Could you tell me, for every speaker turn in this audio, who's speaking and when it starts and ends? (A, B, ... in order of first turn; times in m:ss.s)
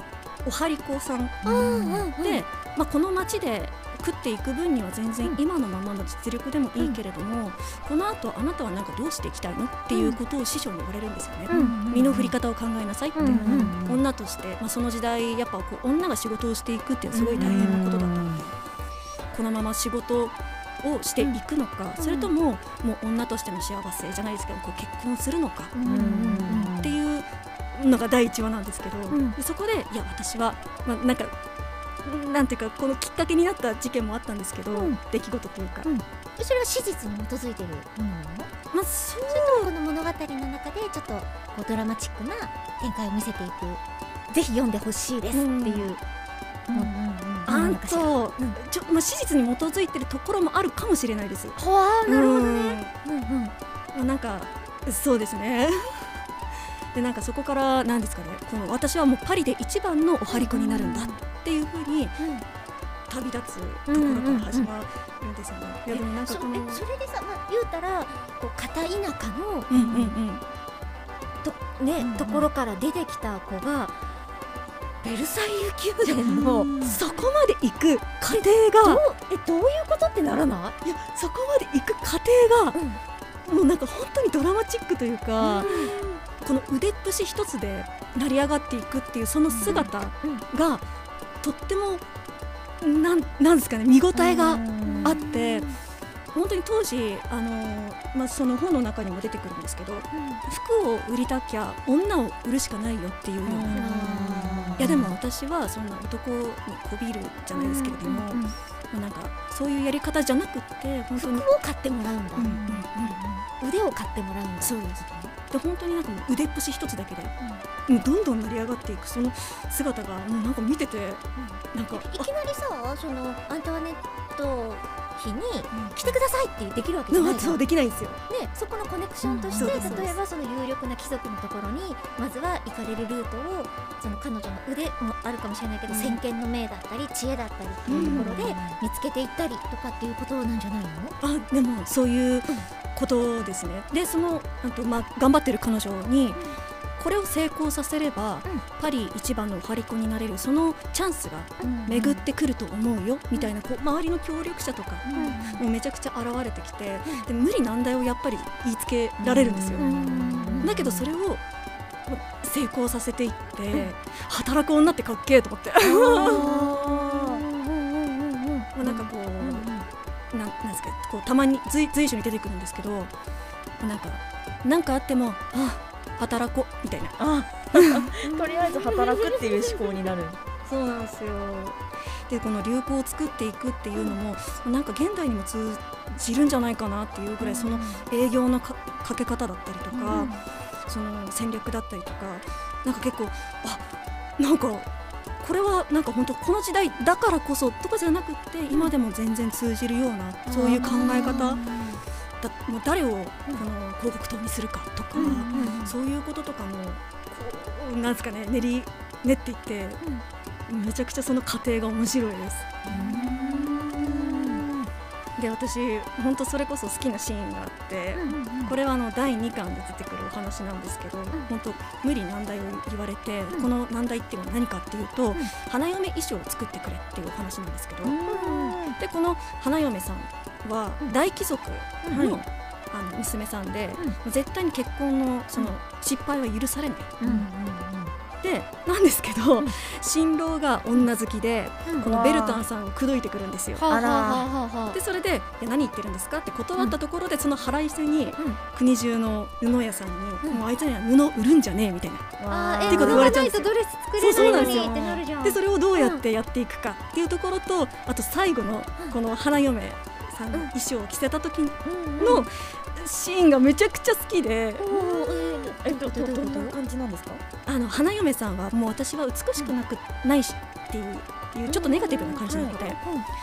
0:00.4-0:01.4 A
0:01.4-0:02.4 B
0:01.4-0:02.1 C
0:02.2-0:18.5 A
0:09.9-0:10.2 B
0:11.5-0:12.2 B
0:11.5-0:12.3 C
0:13.2-0:13.8 B
0:13.2-0:14.0 C
0:17.2-0:18.4 C
0:19.3-0:25.7 A
0:22.0-0:22.3 B
0:25.7-0:26.7 B
0:25.8-0:27.0 C
0:26.5-0:31.3 A
0:29.1-0:29.4 B
0:32.0-0:35.9 A
0:34.7-0:35.0 B
0:35.8-0:38.5 B
0:38.7-0:39.7 A
0:39.3-0:46.0 B
0:45.3-0:45.9 A
0:46.7-0:48.6 B
0:47.5-0:52.9 A
0:51.6-0:53.5 B
0:53.9-0:56.2 A
0:56.9-1:02.2 A
1:00.3-1:01.1 B
1:02.2-1:02.4 B
1:03.1-1:06.8 A
1:03.9-1:04.7 B
1:05.9-1:09.7 B
1:09.7-1:10.4 A
1:09.8-1:10.1 C
1:11.4-1:13.9 B
1:12.0-1:12.5 C
1:15.0-1:16.7 B
1:16.2-1:17.0 C
1:16.8-1:19.0 A
1:18.8-1:20.8 B
1:20.8-1:22.8 A
1:22.7-1:23.0 B
1:23.4-1:25.7 A
1:25.4-1:26.0 B
1:25.6-1:26.0 C
1:26.4-1:30.8 A
1:29.6-1:30.4 B
1:29.6-1:29.9 C
1:31.4-1:32.0 A
1:32.8-1:35.7 A
1:34.3-1:35.2 C
1:34.8-1:35.8 B
1:36.3-1:44.2 A
1:40.1-1:40.4 B
1:43.4-1:45.1 C
1:43.7-1:45.0 B
1:44.8-1:51.5 A
1:47.5-1:48.5 B
1:51.2-1:54.8 B
1:52.4-1:53.2 A
1:52.4-1:52.8 C
1:54.6-1:57.3 A
1:57.9-2:02.3 A
2:01.4-2:07.6 B
2:07.1-2:08.2 A
2:08.3-2:21.2 B
2:09.2-2:10.1 C
2:09.5-2:10.1 A
2:15.9-2:16.2 A
2:17.9-2:18.5 A
2:17.9-2:18.8 C
2:21.2-2:26.4 A
2:27.0-2:39.9 A
2:31.6-2:32.2 B
2:35.1-2:35.6 B
2:39.2-2:41.1 C
2:39.8-2:40.7 B
2:40.6-2:41.4 A
2:42.1-2:46.5 A
2:45.8-2:47.4 C
2:46.0-2:48.7 B
2:48.7-2:49.7 A
2:48.8-2:49.6 C
2:50.3-2:53.1 A
2:53.8-2:57.2 A
2:57.2-3:00.4 C
2:57.7-2:58.1 A
2:58.2-2:58.7 B
3:00.6-3:10.3 A
3:09.9-3:10.4 B
3:10.9-3:14.9 A
3:15.4-3:21.6 A
3:20.5-3:22.0 B
3:21.0-3:21.5 C
3:22.4-3:30.0 A
3:25.1-3:25.8 C
3:25.1-3:25.9 B
3:30.7-3:32.8 A
3:32.9-3:34.9 B
3:32.9-3:34.5 C
3:35.4-3:57.2 A
3:38.1-3:38.7 B
3:48.0-3:49.0 C
3:48.2-3:48.8 B
3:52.0-3:52.3 B
3:52.1-3:52.4 C
3:57.2-3:58.0 B
3:57.2-3:57.7 C
3:58.4-4:03.9 A
4:02.0-4:02.6 C
4:03.8-4:05.0 B
4:03.9-4:04.5 C
4:04.9-4:12.3 A
4:12.4-4:13.4 C
4:12.5-4:16.2 B
4:12.9-4:24.8 A
4:14.3-4:15.1 C
4:21.8-4:22.5 C
4:24.8-4:27.4 C
4:24.9-4:26.8 B
4:27.7-4:33.0 A
4:31.7-4:33.0 C